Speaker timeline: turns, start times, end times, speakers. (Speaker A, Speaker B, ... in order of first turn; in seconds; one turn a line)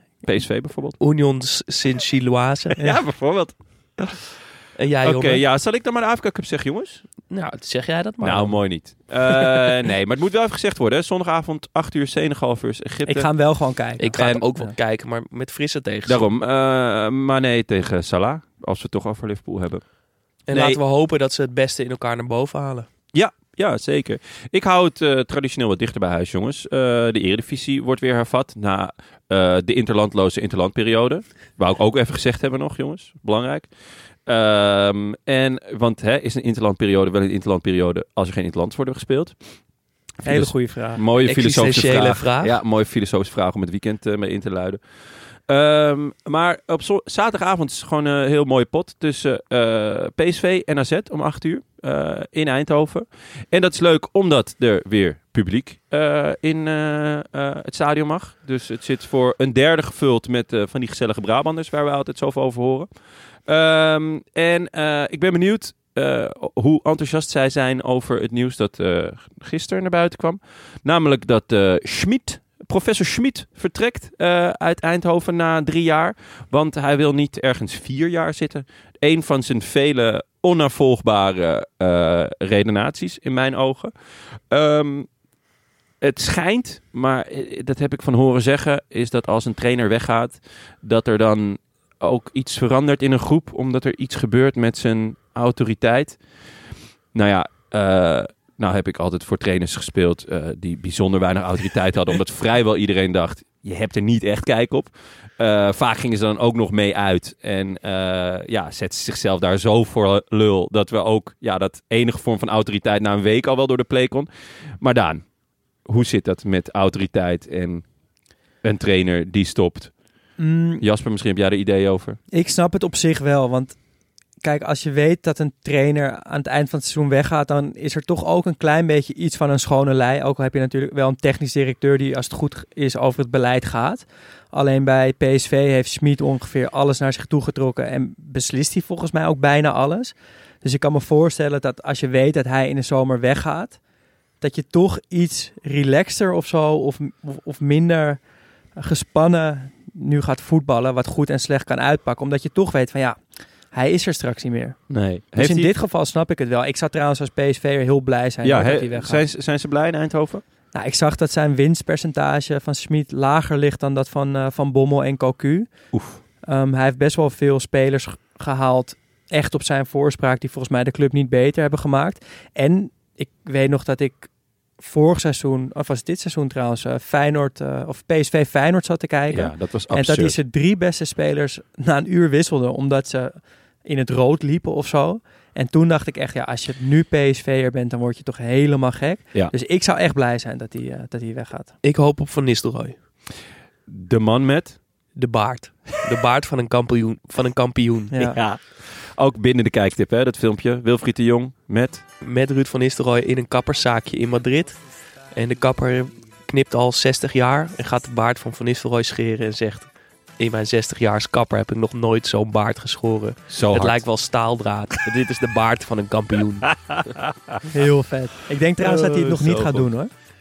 Speaker A: 0.2-1.0
Speaker B: 1.0-2.8
Speaker A: 2.8-4.3
Speaker B: 4.8-5.4
Speaker A: 5.0-7.0
Speaker B: 7.3-9.1
Speaker A: 8.2-13.5
Speaker C: 13.0-14.7
Speaker B: 14.0-16.2
Speaker A: 14.2-14.4
Speaker A: 16.1-19.9
Speaker B: 20.5-22.9
Speaker A: 20.5-20.8
Speaker A: 23.1-85.1
Speaker C: 40.2-41.0
Speaker B: 41.2-42.5
Speaker A: 86.0-96.6
Speaker A: 97.1-115.3
Speaker A: 115.8-117.9
Speaker A: 118.6-120.0
Speaker C: 120.4-120.8
Speaker A: 120.8-122.2
Speaker C: 122.3-123.8
Speaker C: 124.4-143.8
Speaker C: 144.4-148.2
Speaker C: 148.8-153.2
Speaker C: 153.7-159.2
Speaker A: 154.9-155.7
Speaker A: 158.4-160.4
Speaker C: 160.7-191.7
Speaker A: 165.9-166.2
Speaker A: 179.3-180.4
Speaker B: 191.8-192.9
Speaker A: 193.9-194.8
Speaker B: 195.1-198.1
Speaker C: 198.1-198.4
Speaker A: 198.2-202.0
Speaker B: 202.2-216.9
Speaker A: 213.5-214.0
Speaker A: 216.7-217.5
Speaker C: 217.7-220.1
Speaker A: 218.8-219.9